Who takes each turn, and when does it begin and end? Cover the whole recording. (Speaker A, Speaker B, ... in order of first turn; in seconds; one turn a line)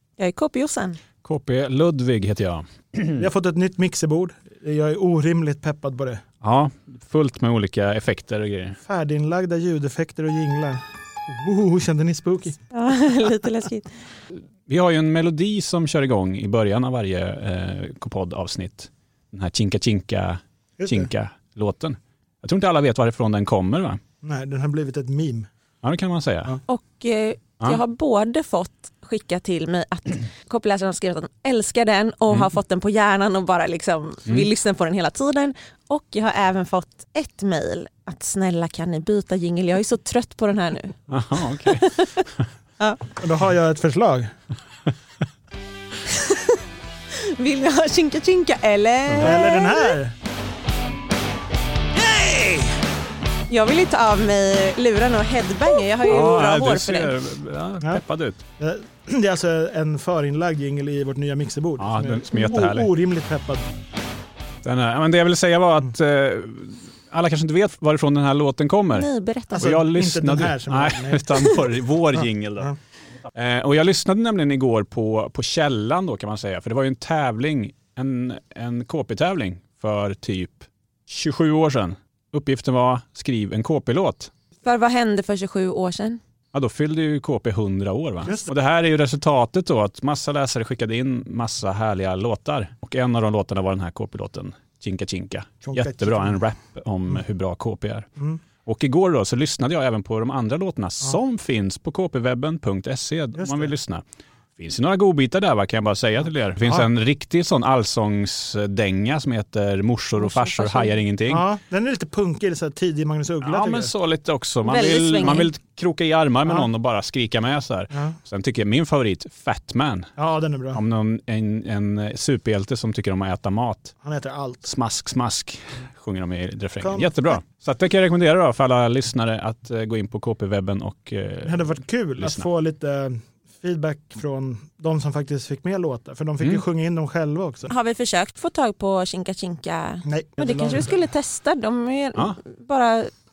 Speaker A: 0.2-1.0
Speaker B: 1.2-3.3
Speaker C: 3.2-6.2
Speaker B: 6.4-8.8
Speaker C: 8.8-12.6
Speaker A: 12.7-13.9
Speaker B: 14.7-24.0
Speaker C: 20.8-21.1
Speaker C: 24.2-25.5
Speaker B: 25.8-26.6
Speaker A: 26.7-42.3
Speaker B: 41.1-42.4
Speaker A: 42.8-43.0
Speaker C: 43.2-44.3
Speaker A: 46.0-49.9
Speaker B: 49.1-49.4
Speaker C: 49.2-50.1
Speaker C: 52.0-52.8
Speaker A: 53.5-57.1
Speaker B: 56.0-58.4
Speaker C: 58.6-63.6
Speaker B: 61.8-62.9
Speaker B: 64.6-72.7
Speaker A: 68.9-69.7
Speaker C: 69.5-71.6
Speaker C: 72.1-72.7
Speaker B: 73.3-84.3
Speaker A: 84.6-86.2
Speaker B: 86.5-98.1
Speaker C: 88.2-88.5
Speaker C: 95.6-96.4
Speaker B: 98.6-104.0
Speaker C: 103.3-103.7
Speaker B: 104.6-111.4
Speaker A: 110.2-110.9
Speaker C: 111.3-113.9
Speaker B: 113.4-120.1
Speaker A: 114.6-115.5
Speaker C: 120.2-120.8
Speaker B: 120.7-123.9
Speaker C: 124.0-124.7
Speaker B: 124.6-132.4
Speaker C: 126.8-127.1
Speaker C: 131.4-137.7
Speaker A: 137.7-143.1
Speaker C: 140.0-141.1